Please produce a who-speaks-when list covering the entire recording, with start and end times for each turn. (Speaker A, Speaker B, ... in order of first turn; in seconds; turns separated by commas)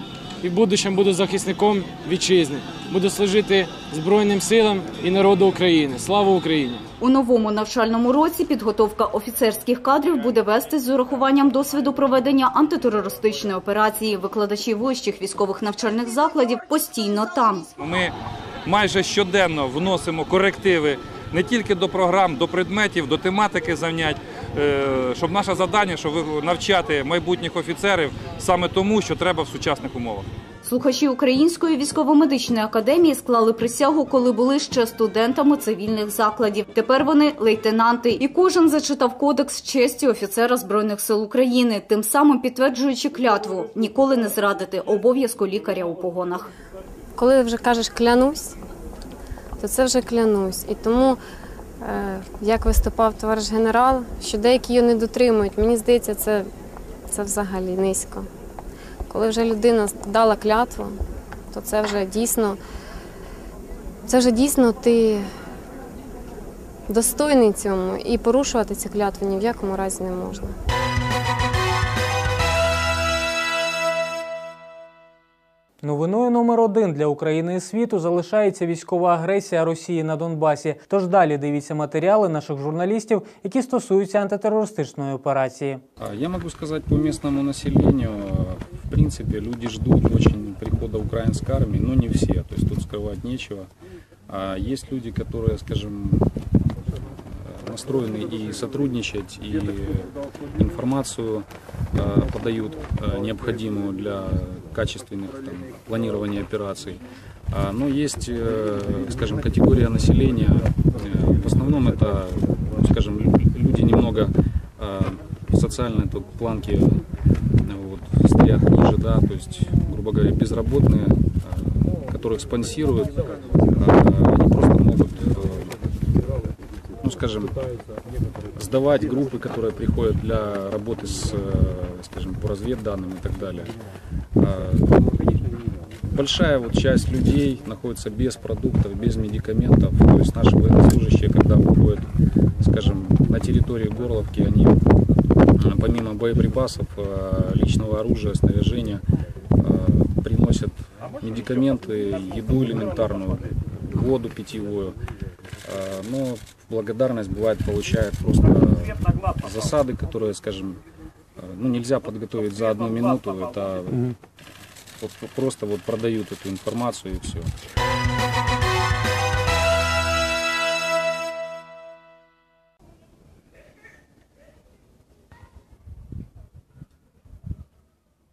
Speaker A: 0.4-6.8, Speaker B: 7.0-17.7, Speaker C: 17.8-18.1, Speaker C: 18.6-30.3, Speaker B: 30.6-46.5, Speaker D: 47.2-48.5, Speaker D: 49.6-51.2, Speaker D: 51.9-56.5, Speaker D: 57.1-58.2, Speaker D: 59.1-60.9, Speaker D: 61.5-62.6, Speaker D: 64.1-65.2, Speaker D: 66.9-70.5, Speaker E: 75.8-85.8, Speaker F: 86.0-93.7, Speaker F: 94.3-96.3, Speaker F: 97.3-117.0, Speaker F: 117.6-123.2, Speaker F: 123.7-125.8, Speaker F: 127.0-127.5, Speaker F: 128.5-133.7, Speaker F: 134.4-135.0, Speaker F: 136.1-142.1, Speaker F: 142.6-144.8, Speaker F: 145.6-149.0, Speaker F: 149.6-154.9, Speaker F: 155.6-160.8, Speaker F: 161.4-164.1, Speaker F: 165.0-167.5